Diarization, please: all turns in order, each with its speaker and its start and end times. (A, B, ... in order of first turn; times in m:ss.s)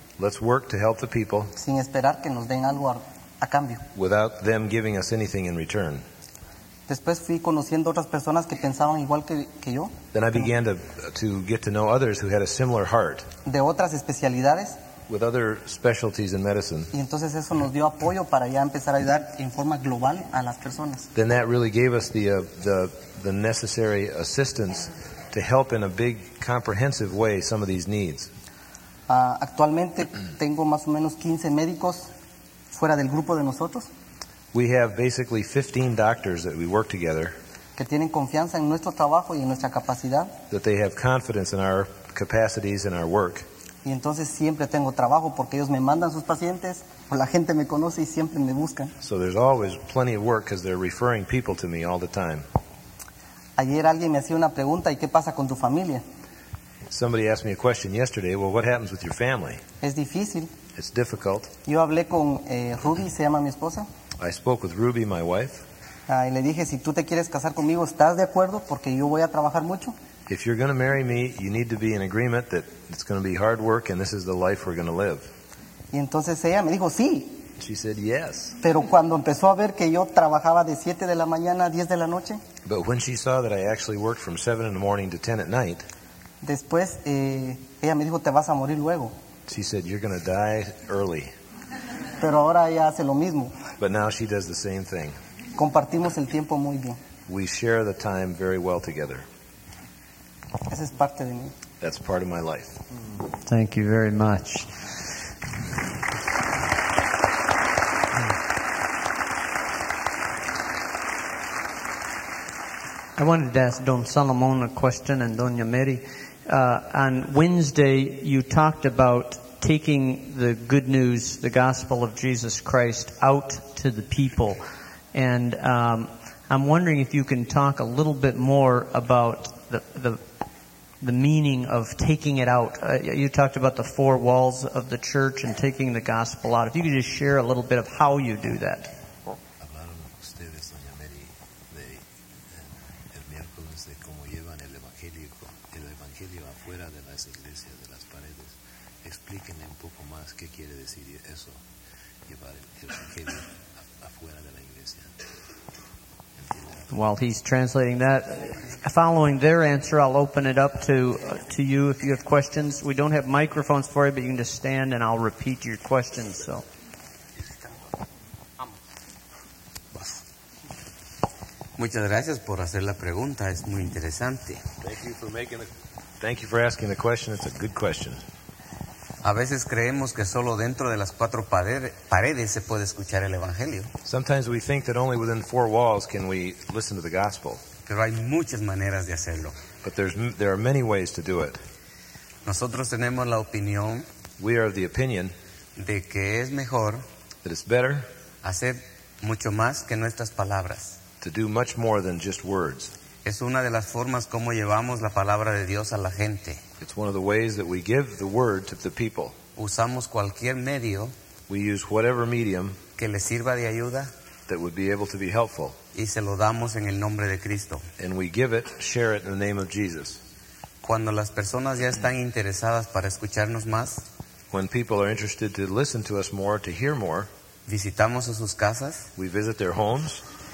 0:00.2-0:01.5 A
0:01.6-0:03.8 B
0:03.9-0:06.0 A
0:06.9-0:10.0 B
0:10.1-0:13.3 A
0:13.4-0:14.8 B
0:15.1-0:16.9 A
0:16.9-0:21.1 B
0:21.1-0:28.3 A
0:29.1-0:32.1 B
0:32.7-0:33.9 B
0:34.5-0:37.4 A
0:37.8-0:40.4 B
0:40.5-0:43.4 A
0:43.8-0:48.9 B
0:49.0-0:52.4 A
0:53.6-0:56.0 B
0:56.9-0:59.6 A
0:59.8-1:00.5 B
1:00.7-1:01.5 A
1:01.6-1:03.9 B
1:04.2-1:05.6 A
1:06.1-1:10.0 B
1:10.3-1:15.3 A
1:15.9-1:17.5 B
1:17.6-1:18.6 A
1:18.6-1:22.4 B
1:22.6-1:25.9 A
1:26.4-1:29.1 B
1:29.5-1:31.3 A
1:32.2-1:33.6 B
1:33.8-1:35.2 A
1:35.6-1:37.0 B
1:37.3-1:39.2 A
1:40.7-1:41.5 B
1:41.8-1:42.8 A
1:43.4-1:44.8 C
1:53.2-2:04.6 C
2:05.1-2:10.2 C
2:11.0-2:18.9 C
2:19.6-2:31.6 D
2:32.3-2:35.1 D
2:36.4-2:36.9 D
2:36.9-2:46.6 C
2:51.8-2:54.7 E
2:54.8-2:55.7 A
2:56.2-2:58.2 A
2:59.2-3:03.9 E
3:04.0-3:07.6 A
3:07.8-3:09.6 E
3:09.8-3:11.6 A
3:12.4-3:14.1 E
3:14.4-3:15.3 A
3:15.8-3:17.0 E
3:17.4-3:18.1 A
3:18.4-3:21.0 E
3:21.2-3:22.9 A
3:23.2-3:26.6 E
3:26.8-3:29.4 A
3:29.6-3:31.1 E
3:31.5-3:32.8 A
3:33.0-3:34.1 E
3:34.5-3:35.8 A
3:35.9-3:37.9 E
3:38.0-3:40.2 A
3:40.8-3:44.0 E
3:44.5-3:47.3 A
3:47.7-3:49.1 E
3:49.2-3:50.2 A